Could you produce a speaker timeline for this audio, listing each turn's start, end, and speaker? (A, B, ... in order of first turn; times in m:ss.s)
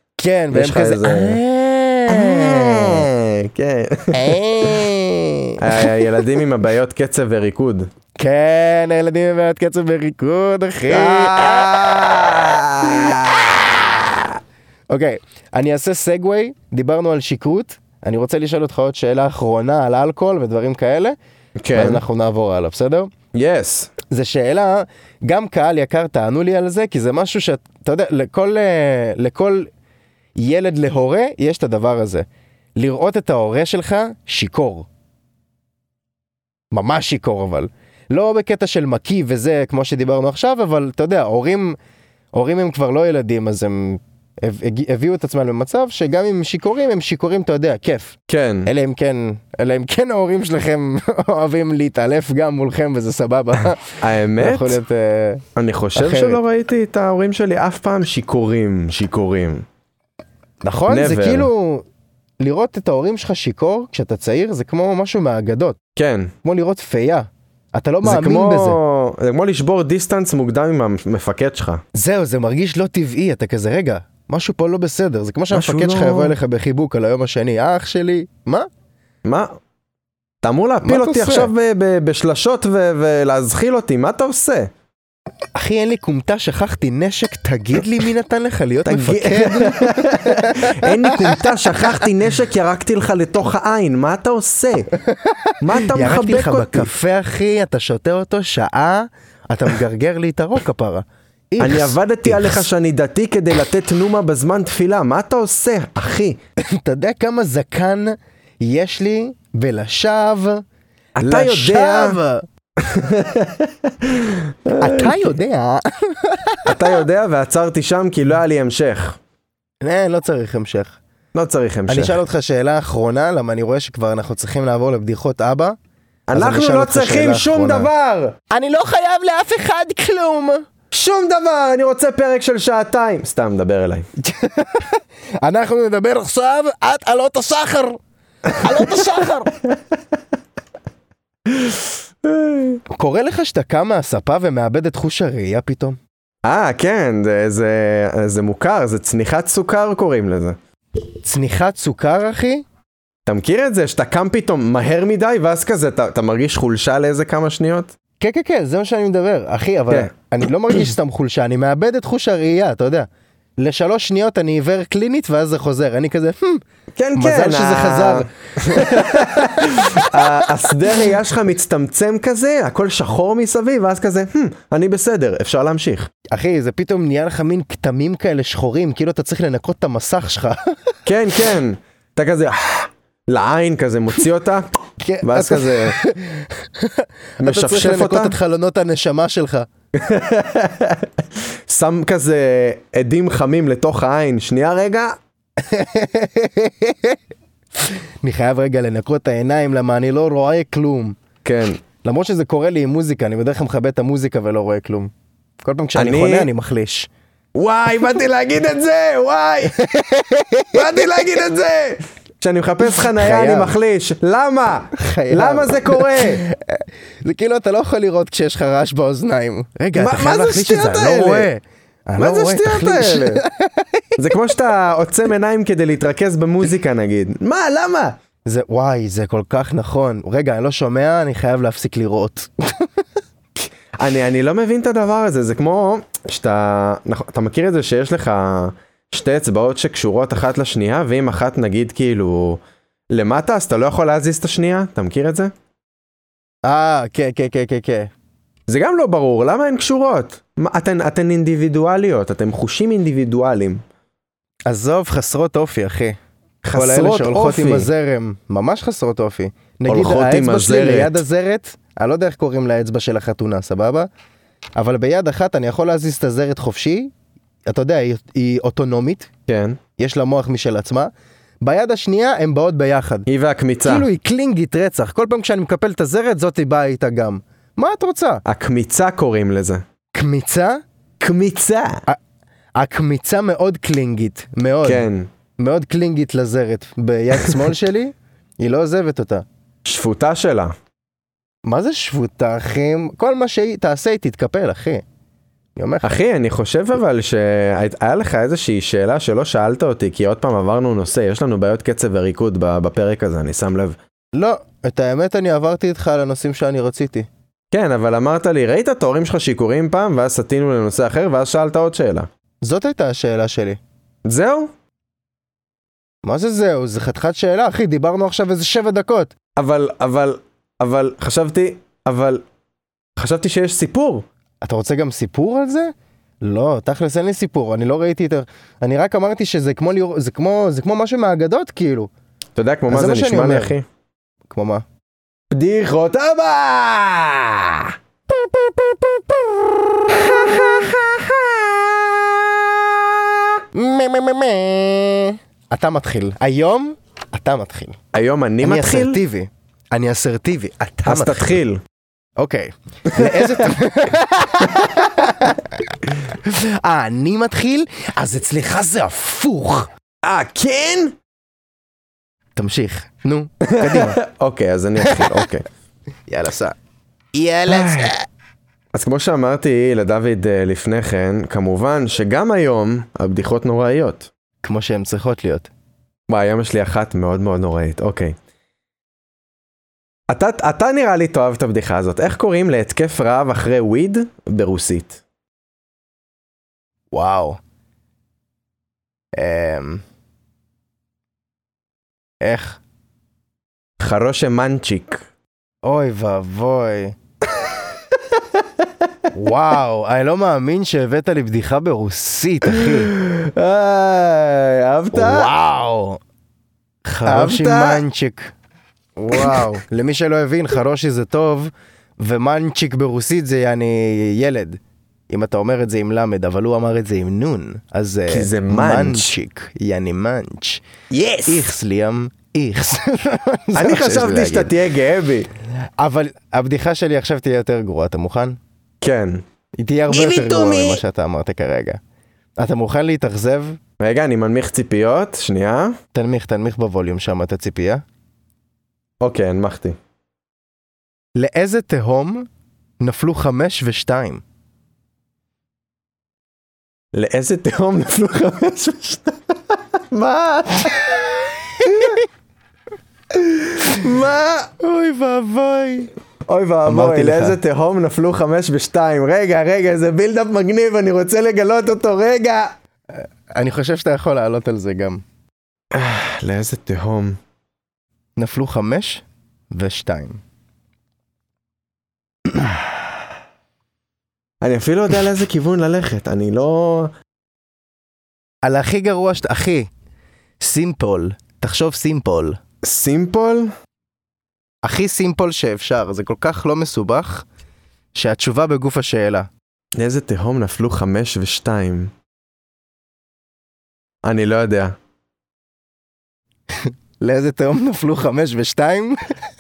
0:00.2-0:03.1 A
0:00.5-0:01.4 B
0:02.1-0:04.8 B
0:04.1-0:06.1 A
0:05.6-0:07.9 B
0:08.2-0:12.0 A
0:10.9-0:14.2 B
0:12.8-0:13.2 A
0:14.9-0:21.2 A
0:21.6-0:22.0 B
0:21.7-0:23.1 A
0:23.3-0:23.9 B
0:24.1-0:29.7 A
0:30.4-0:34.9 A
0:36.7-0:41.8 A
0:42.3-0:55.4 A
0:48.3-0:48.7 B
0:54.0-0:54.8 B
0:55.6-0:59.6 B
0:56.0-0:56.4 A
1:00.6-1:01.9 A
1:00.9-1:01.5 B
1:02.4-1:05.8 A
1:06.0-1:06.3 B
1:06.4-1:08.8 A
1:08.0-1:11.8 B
1:12.0-1:18.7 A
1:15.5-1:16.4 B
1:19.2-1:19.5 B
1:20.4-1:24.7 B
1:20.8-1:21.5 A
1:25.6-1:31.9 A
1:28.8-1:34.9 B
1:35.2-1:42.6 A
1:35.6-1:36.9 B
1:41.6-1:46.4 B
1:46.6-1:50.6 A
1:51.2-1:52.2 B
1:51.2-1:52.4 A
1:52.8-1:55.3 B
1:54.8-1:57.0 A
1:56.7-1:59.2 B
1:59.8-2:01.0 A
2:01.3-2:02.2 B
2:01.9-2:05.8 A
2:06.3-2:08.4 B
2:06.3-2:07.9 A
2:08.5-2:10.7 A
2:10.9-2:14.1 B
2:14.2-2:18.0 A
2:18.5-2:19.5 A
2:21.5-2:22.8 B
2:22.9-2:26.0 A
2:26.4-2:30.6 B
2:31.2-2:32.6 A
2:33.3-2:37.9 B
2:38.2-2:46.6 A
2:47.0-2:56.1 B
2:47.2-2:50.5 A
2:56.3-3:00.9 A
3:01.1-3:04.7 B
3:05.0-3:09.7 A
3:05.2-3:06.0 B
3:07.4-3:08.4 B
3:09.9-3:15.2 B
3:15.6-3:17.2 A
3:17.8-3:21.2 A
3:21.4-3:21.8 B
3:22.0-3:25.1 A
3:25.6-3:27.1 A
3:26.0-3:26.5 B
3:27.6-3:29.8 B
3:29.7-3:31.4 A
3:30.7-3:36.4 B
3:32.9-3:33.8 A
3:35.0-3:44.2 A
3:40.0-3:41.5 B
3:42.2-3:43.4 B
3:44.2-3:48.2 B
3:48.5-3:52.9 A
3:53.9-4:02.6 B
4:03.1-4:05.5 B
4:06.6-4:08.1 A
4:08.7-4:13.8 B
4:14.7-4:16.2 A
4:16.6-4:17.9 B
4:16.7-4:24.1 A
4:19.9-4:21.2 B
4:24.8-4:27.1 A
4:27.7-4:29.3 A
4:29.5-4:29.8 B
4:30.0-4:31.1 A
4:31.6-4:33.3 A
4:33.3-4:34.1 B
4:33.8-4:38.4 A
4:38.4-4:39.8 B
4:40.1-4:40.8 A
4:41.2-4:42.0 B
4:42.8-4:49.4 A
4:44.8-4:45.3 B
4:49.8-4:50.8 B
4:51.7-4:55.0 A
4:55.8-4:56.2 A
4:56.0-5:04.0 B
5:04.3-5:07.3 A
5:07.7-5:12.3 B
5:12.6-5:13.8 A
5:14.3-5:14.7 B
5:16.2-5:19.3 A
5:19.6-5:22.4 B
5:23.2-5:24.2 B
5:24.6-5:32.1 A
5:32.6-5:33.9 B
5:32.9-5:33.8 A
5:34.5-5:34.8 A
5:35.5-5:37.9 B
5:40.1-5:43.6 B
5:43.7-5:48.0 A
5:48.1-5:49.2 B
5:48.6-5:51.6 A
5:51.1-5:51.8 B
5:52.4-5:59.9 A
5:53.2-5:53.7 B
5:54.7-5:55.2 B
6:00.2-6:01.2 B
6:02.6-6:04.2 A
6:03.6-6:05.7 B
6:05.0-6:05.4 A
6:06.3-6:06.8 A
6:07.3-6:08.3 A
6:07.7-6:08.1 B
6:08.9-6:14.3 B
6:14.6-6:15.7 A
6:16.3-6:18.4 B
6:20.3-6:25.2 B
6:27.1-6:27.6 A
6:29.4-6:30.0 A
6:32.4-6:32.8 A
6:34.0-6:35.3 B
6:35.8-6:37.2 A
6:37.5-6:38.9 B
6:39.3-6:43.1 A
6:42.7-6:45.5 B
6:45.1-6:46.2 A
6:47.1-6:48.5 A
6:47.2-6:48.0 B
6:49.2-7:00.8 A
6:49.3-6:49.6 B
6:58.3-6:59.4 B
7:01.1-7:01.7 B
7:01.5-7:04.7 A
7:03.8-7:05.5 B
7:06.0-7:08.6 A
7:09.0-7:09.4 B
7:09.8-7:12.0 A
7:10.1-7:11.0 B
7:12.6-7:13.8 A
7:14.0-7:16.0 B
7:16.1-7:18.0 A
7:19.2-7:20.0 B
7:21.4-7:22.5 A
7:23.0-7:24.4 A
7:27.1-7:31.2 B
7:31.8-7:32.2 B
7:33.3-7:34.7 B
7:34.8-7:36.1 A
7:36.5-7:42.8 B
7:36.9-7:37.6 A
7:43.2-7:45.2 A
7:45.9-7:47.4 B
7:48.4-7:50.4 A
7:54.6-7:57.1 B
7:58.6-7:59.9 A
8:00.6-8:02.6 A
8:02.8-8:03.7 B
8:04.8-8:07.5 A
8:08.1-8:09.5 A
8:10.0-8:12.1 B
8:14.2-8:15.0 B
8:16.8-8:19.2 A